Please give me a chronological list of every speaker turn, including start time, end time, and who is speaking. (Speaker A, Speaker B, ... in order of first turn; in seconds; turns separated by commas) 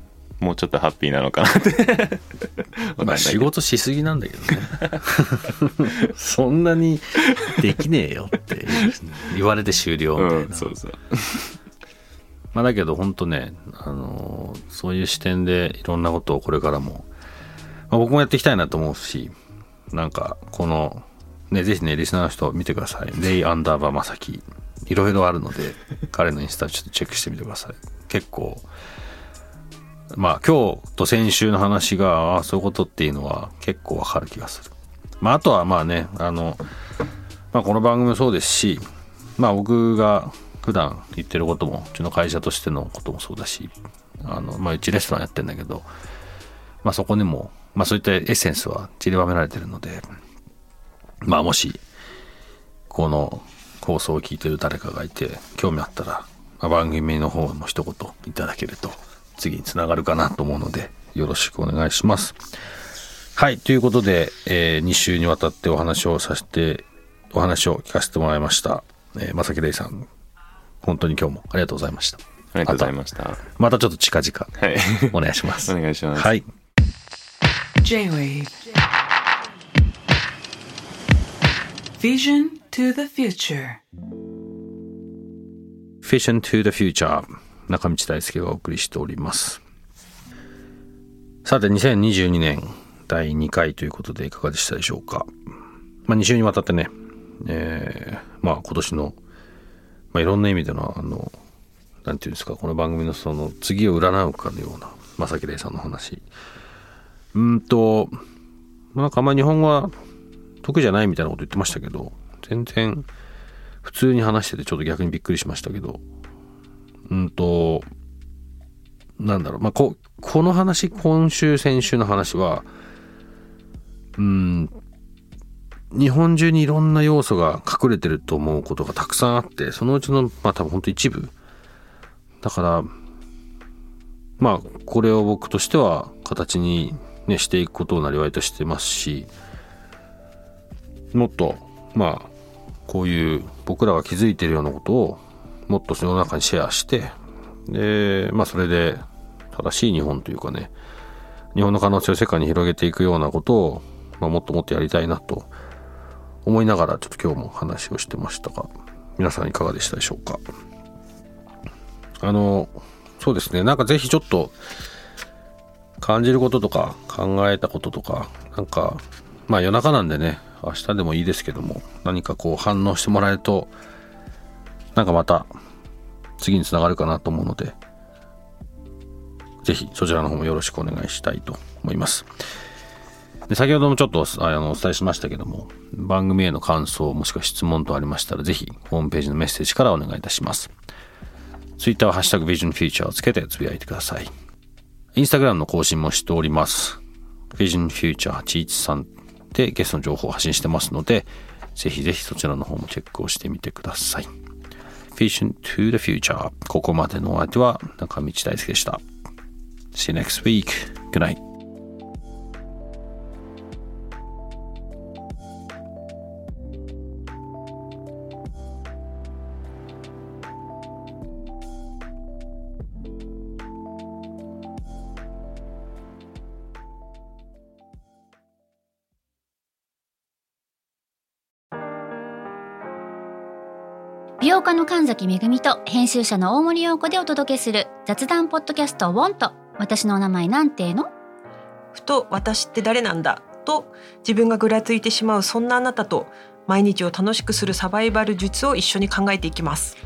Speaker A: 0.4-3.5, Speaker B: 3.0-10.7, Speaker A: 10.2-11.5, Speaker B: 12.5-17.1, Speaker B: 17.9-19.3, Speaker B: 19.9-28.7, Speaker B: 30.1-36.6, Speaker B: 37.5-38.8, Speaker B: 39.4-43.7, Speaker B: 44.2-45.9, Speaker B: 46.8-50.0, Speaker B: 51.2-51.8, Speaker B: 52.9-62.4, Speaker B: 63.4-70.1, Speaker B: 70.8-72.9, Speaker A: 72.5-73.4, Speaker B: 73.5-76.5, Speaker A: 74.6-76.3, Speaker C: 77.8-78.6, Speaker C: 82.0-83.8, Speaker B: 86.0-89.6, Speaker B: 91.4-95.3, Speaker B: 96.1-96.9, Speaker B: 97.4-99.2, Speaker B: 100.1-101.4, Speaker B: 102.1-106.2, Speaker B: 107.3-108.2, Speaker B: 108.9-109.9, Speaker B: 110.6-113.1, Speaker B: 113.8-116.0, Speaker B: 117.1-117.9, Speaker B: 119.2-122.7, Speaker B: 124.2-124.7, Speaker B: 125.9-131.3, Speaker B: 132.4-132.9, Speaker B: 134.4-139.3, Speaker B: 141.1-142.3, Speaker B: 142.9-147.2, Speaker B: 147.7-150.7, Speaker B: 151.6-155.5, Speaker B: 156.4-160.4, Speaker B: 162.2-164.6, Speaker B: 166.0-173.7, Speaker B: 174.9-175.5, Speaker B: 176.4-177.8, Speaker B: 179.6-182.3, Speaker B: 183.5-190.7, Speaker B: 191.8-194.3, Speaker B: 195.2-197.0, Speaker B: 197.6-204.3, Speaker B: 205.2-209.0, Speaker B: 209.9-211.4, Speaker D: 234.4-241.1, Speaker E: 241.9-250.0